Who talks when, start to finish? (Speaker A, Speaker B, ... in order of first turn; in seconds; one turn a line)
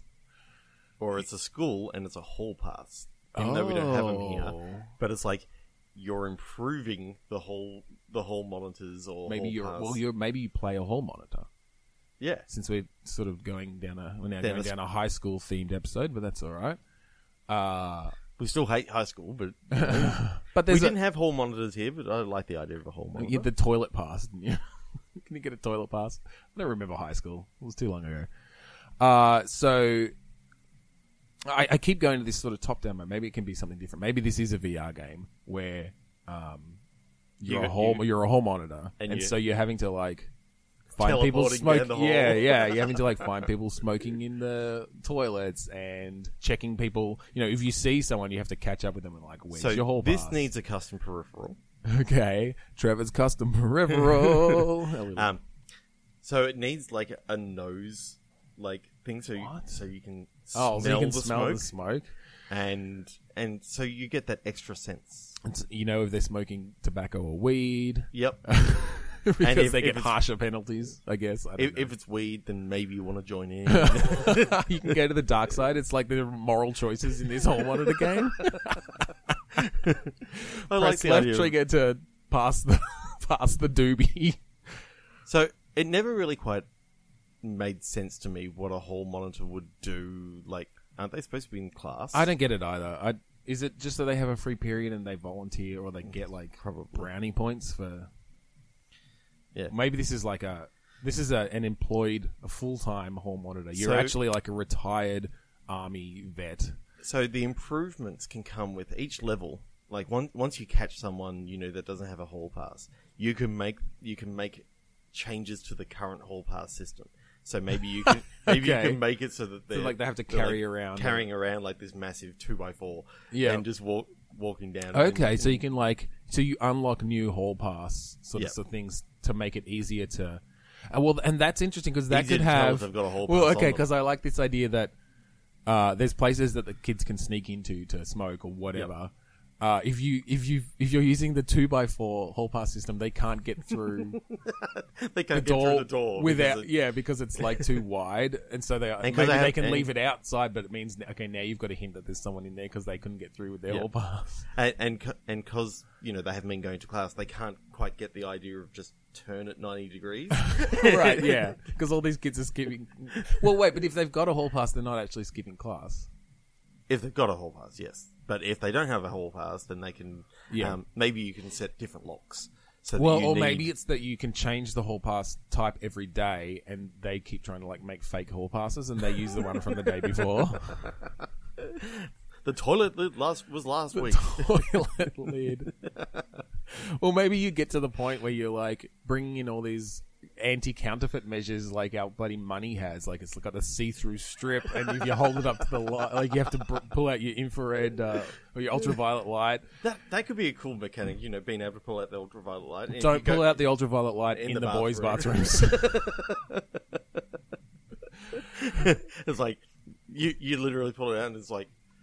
Speaker A: 1.0-10.0
Speaker B: 3.4-5.0
Speaker B: 9.3-11.5
Speaker A: 12.2-12.5
Speaker B: 12.5-16.8
Speaker A: 14.4-14.7
Speaker B: 17.5-18.2
Speaker A: 18.4-23.5
Speaker B: 19.7-20.9
Speaker B: 23.2-24.6
Speaker B: 25.2-28.3
Speaker B: 29.0-30.1
Speaker B: 31.5-36.8
Speaker B: 37.4-40.3
Speaker A: 37.5-38.1
Speaker A: 39.0-39.3
Speaker B: 40.9-50.5
Speaker A: 41.0-43.0
Speaker A: 49.5-51.6
Speaker B: 51.9-55.3
Speaker A: 54.0-54.6
Speaker A: 55.1-55.4
Speaker A: 56.2-61.7
Speaker B: 59.4-59.8
Speaker B: 60.5-62.1
Speaker A: 62.5-65.4
Speaker B: 65.4-71.9
Speaker A: 68.1-68.4
Speaker A: 69.4-70.2
Speaker A: 71.6-74.9
Speaker B: 73.7-79.0
Speaker A: 78.0-78.5
Speaker A: 79.5-81.6
Speaker B: 80.3-84.8
Speaker A: 85.3-86.7
Speaker A: 87.4-92.3
Speaker B: 92.1-98.1
Speaker A: 96.6-97.1
Speaker B: 99.7-106.8
Speaker A: 103.8-104.2
Speaker A: 107.0-125.6
Speaker B: 118.4-119.0
Speaker B: 119.7-121.3
Speaker B: 123.3-123.7
Speaker B: 124.9-134.9
Speaker A: 132.1-133.9
Speaker B: 135.7-144.2
Speaker A: 144.2-146.7
Speaker B: 145.3-154.5
Speaker A: 147.4-147.7
Speaker A: 149.0-149.9
Speaker A: 154.5-161.5
Speaker B: 160.5-166.1
Speaker A: 166.9-173.7
Speaker B: 170.5-170.8
Speaker B: 173.0-180.9
Speaker A: 180.8-184.7
Speaker B: 183.9-185.7
Speaker A: 185.8-186.2
Speaker B: 186.7-199.7
Speaker A: 199.8-203.6
Speaker B: 202.9-206.1
Speaker A: 204.3-207.2
Speaker A: 208.3-211.7